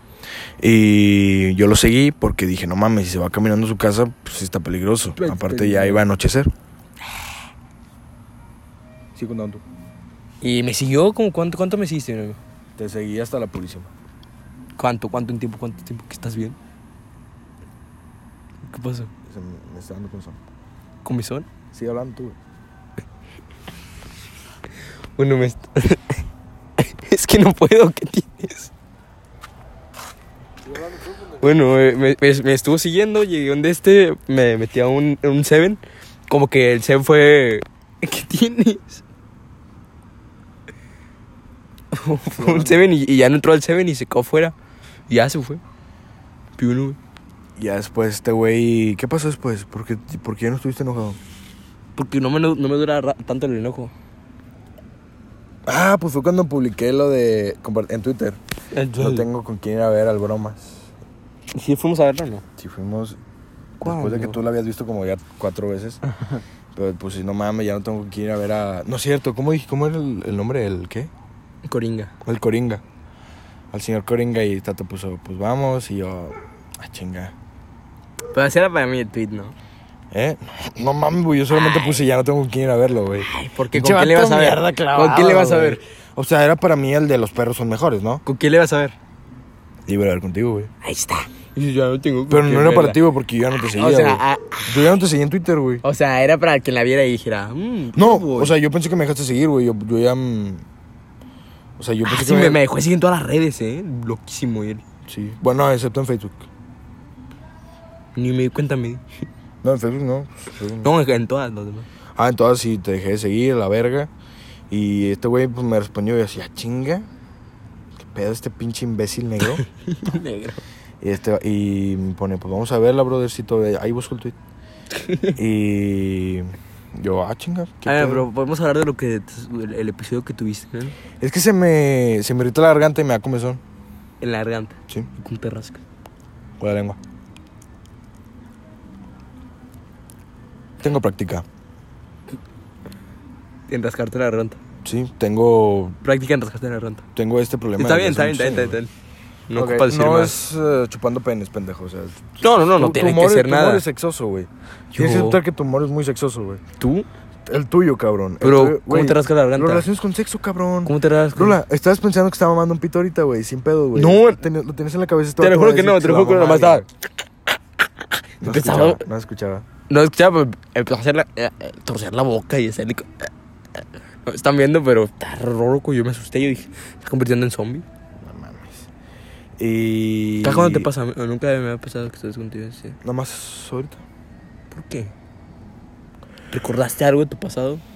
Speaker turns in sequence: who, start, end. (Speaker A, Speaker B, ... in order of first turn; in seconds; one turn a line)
Speaker A: 0.6-6.5
Speaker B: 5.2-6.1
Speaker A: 9.2-9.6
Speaker B: 10.4-12.4
Speaker A: 12.8-13.9
Speaker B: 14.8-16.6
Speaker B: 18.7-19.1
Speaker A: 19.3-20.4
Speaker B: 21.0-21.5
Speaker A: 21.7-22.4
Speaker B: 25.2-26.2
Speaker B: 26.8-28.7
Speaker B: 31.4-39.0
Speaker B: 41.9-44.5
Speaker A: 42.3-42.8
Speaker B: 45.1-45.6
Speaker B: 46.6-47.0
Speaker A: 47.6-51.2
Speaker B: 52.0-53.9
Speaker A: 55.7-58.4
Speaker B: 58.7-59.3
Speaker A: 59.0-60.9
Speaker B: 61.5-62.4
Speaker A: 62.6-63.2
Speaker B: 63.8-64.4
Speaker A: 63.8-66.0
Speaker A: 66.8-71.1
Speaker B: 71.6-72.1
Speaker A: 72.2-72.8
Speaker A: 73.7-77.3
Speaker B: 78.3-79.5
Speaker A: 80.1-88.2
Speaker B: 81.5-82.0
Speaker B: 83.2-85.8
Speaker B: 88.3-89.0
Speaker A: 89.9-90.7
Speaker B: 90.8-93.0
Speaker A: 92.3-95.8
Speaker B: 93.7-94.7
Speaker B: 95.8-98.5
Speaker A: 98.0-100.7
Speaker A: 101.8-102.6
Speaker B: 102.0-104.8
Speaker A: 105.1-106.4
Speaker B: 108.2-109.0
Speaker A: 109.6-110.9
Speaker B: 110.8-111.9
Speaker A: 112.2-114.1
Speaker A: 114.7-117.1
Speaker A: 118.0-119.6
Speaker B: 119.4-120.6
Speaker A: 121.0-124.3
Speaker B: 125.0-125.4
Speaker A: 125.4-128.3
Speaker B: 127.9-131.0
Speaker A: 131.2-133.6
Speaker B: 134.2-135.8
Speaker A: 136.6-137.0
Speaker A: 140.8-141.4
Speaker B: 143.7-144.6
Speaker A: 144.8-146.0
Speaker B: 146.0-147.0
Speaker A: 147.2-148.8
Speaker B: 147.8-148.9
Speaker B: 149.5-150.4
Speaker A: 149.5-156.6
Speaker B: 152.4-153.8
Speaker B: 155.0-155.4
Speaker B: 156.8-157.1
Speaker A: 157.5-166.8
Speaker B: 158.4-159.9
Speaker B: 160.8-161.6
Speaker B: 163.9-164.4
Speaker B: 165.4-166.9
Speaker B: 168.4-169.0
Speaker A: 168.4-169.7
Speaker B: 169.9-173.3
Speaker B: 174.3-177.8
Speaker A: 178.2-178.9
Speaker A: 179.6-180.9
Speaker B: 180.4-183.0
Speaker A: 183.0-184.0
Speaker B: 184.7-185.1
Speaker B: 186.5-187.8